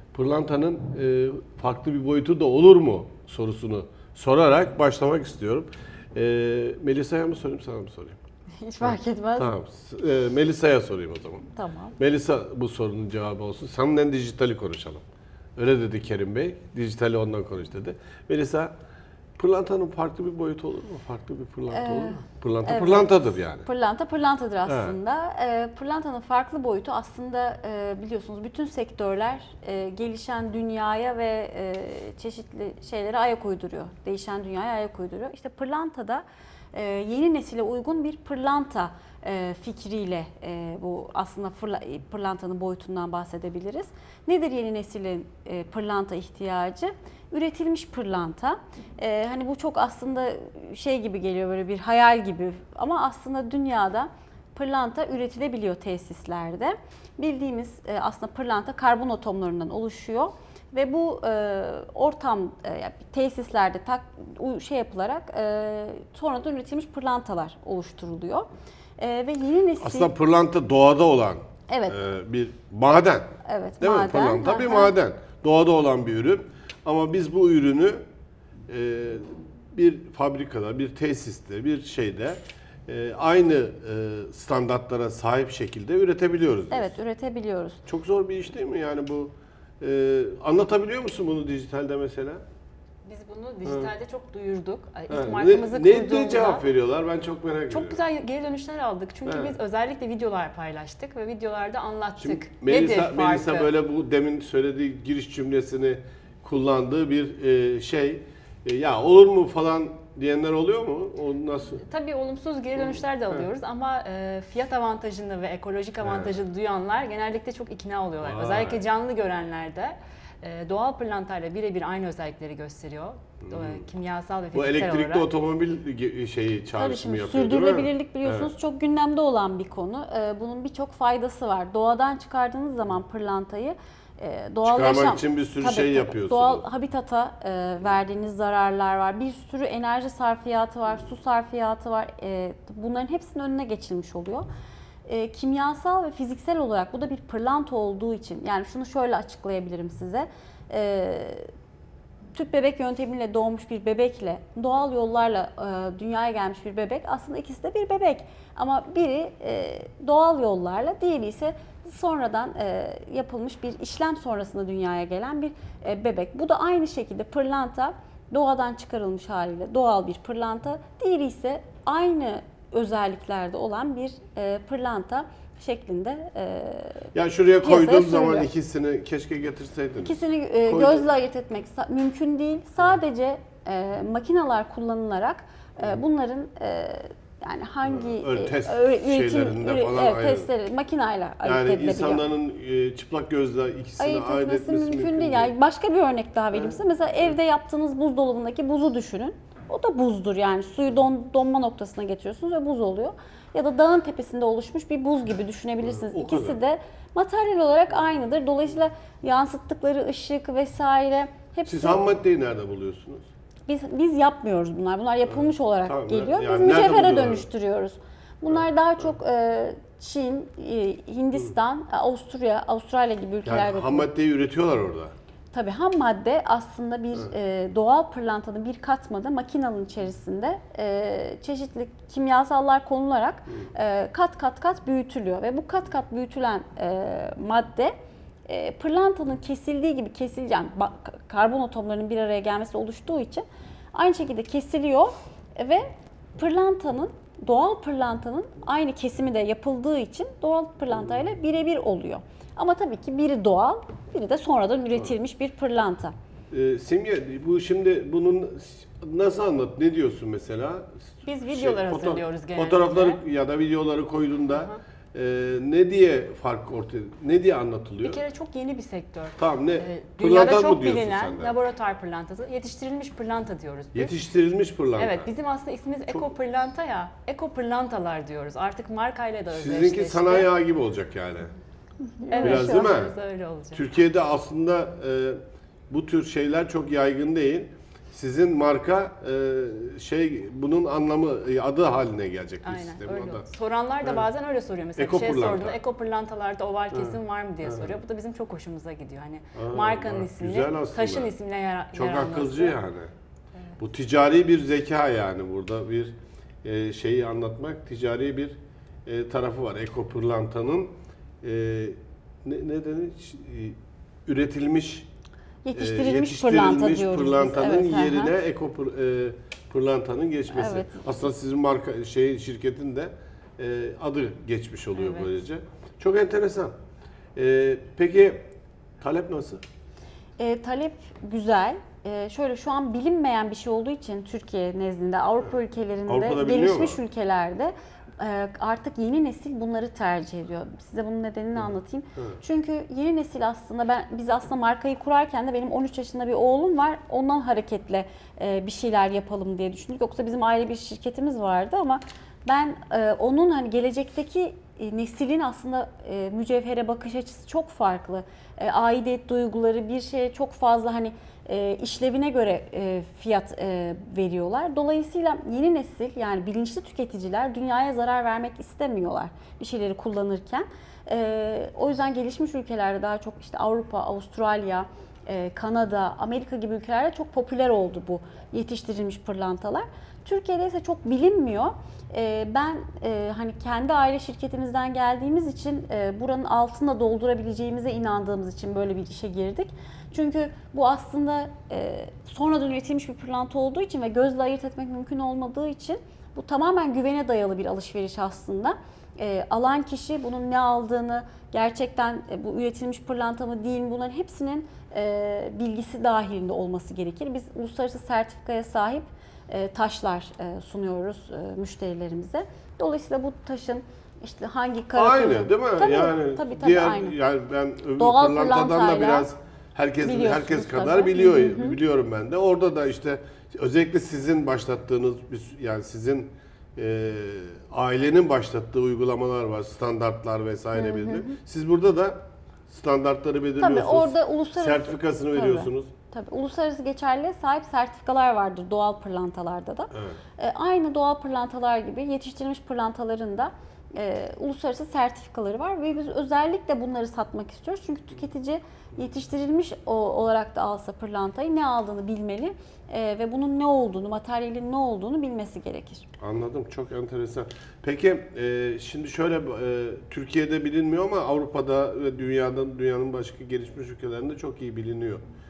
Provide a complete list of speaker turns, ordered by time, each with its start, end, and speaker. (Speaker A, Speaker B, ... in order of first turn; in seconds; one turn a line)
Speaker A: 0.1-8.2
Speaker B: 8.6-9.5
Speaker A: 8.8-15.0
Speaker B: 11.6-12.0
Speaker A: 15.6-18.7
Speaker A: 19.4-23.7
Speaker B: 21.7-70.1
Speaker A: 24.7-24.9
Speaker A: 69.8-78.0
Speaker B: 71.7-72.0
Speaker B: 73.5-75.0
Speaker A: 78.7-87.0
Speaker B: 86.7-87.8
Speaker A: 87.9-92.4
Speaker C: 93.0-96.7
Speaker A: 93.7-93.9
Speaker A: 95.1-98.0
Speaker C: 97.7-103.7
Speaker A: 99.2-99.6
Speaker A: 102.2-111.8
Speaker C: 111.8-125.3
Speaker A: 116.0-116.3
Speaker A: 118.2-118.8
Speaker A: 123.5-123.8
Speaker A: 124.5-128.5
Speaker B: 126.7-144.5
Speaker A: 134.7-136.7
Speaker B: 145.1-151.5
Speaker B: 152.3-177.1
Speaker A: 177.1-180.2
Speaker B: 177.6-178.5
Speaker B: 180.0-192.2
Speaker A: 180.7-181.1
Speaker A: 187.8-190.5
Speaker A: 191.4-195.5
Speaker B: 194.0-212.1
Speaker A: 205.8-206.6
Speaker A: 211.7-213.3
Speaker B: 213.7-224.1
Speaker A: 215.3-217.5
Speaker A: 223.5-225.1
Speaker B: 225.5-237.9
Speaker B: 238.5-245.8
Speaker B: 246.4-256.1
Speaker A: 256.5-268.2
Speaker C: 261.2-263.2
Speaker C: 264.5-264.8
Speaker C: 268.0-274.1
Speaker A: 269.4-271.5
Speaker A: 273.9-275.3
Speaker C: 275.0-280.5
Speaker A: 279.5-281.5
Speaker B: 282.0-282.9
Speaker C: 282.3-283.9
Speaker A: 282.4-283.1
Speaker A: 283.7-293.5
Speaker C: 292.6-302.8
Speaker A: 295.0-295.8
Speaker A: 296.9-298.0
Speaker A: 299.5-301.3
Speaker A: 301.9-303.1
Speaker A: 303.8-315.1
Speaker B: 315.6-318.4
Speaker A: 315.8-326.8
Speaker B: 320.5-321.0
Speaker A: 327.4-329.6
Speaker B: 330.4-417.2
Speaker A: 336.1-337.0
Speaker A: 341.6-342.4
Speaker A: 414.9-435.9
Speaker B: 418.0-419.3
Speaker B: 420.0-421.8
Speaker B: 430.8-431.3
Speaker B: 433.6-456.1
Speaker A: 439.9-440.2
Speaker A: 456.2-465.2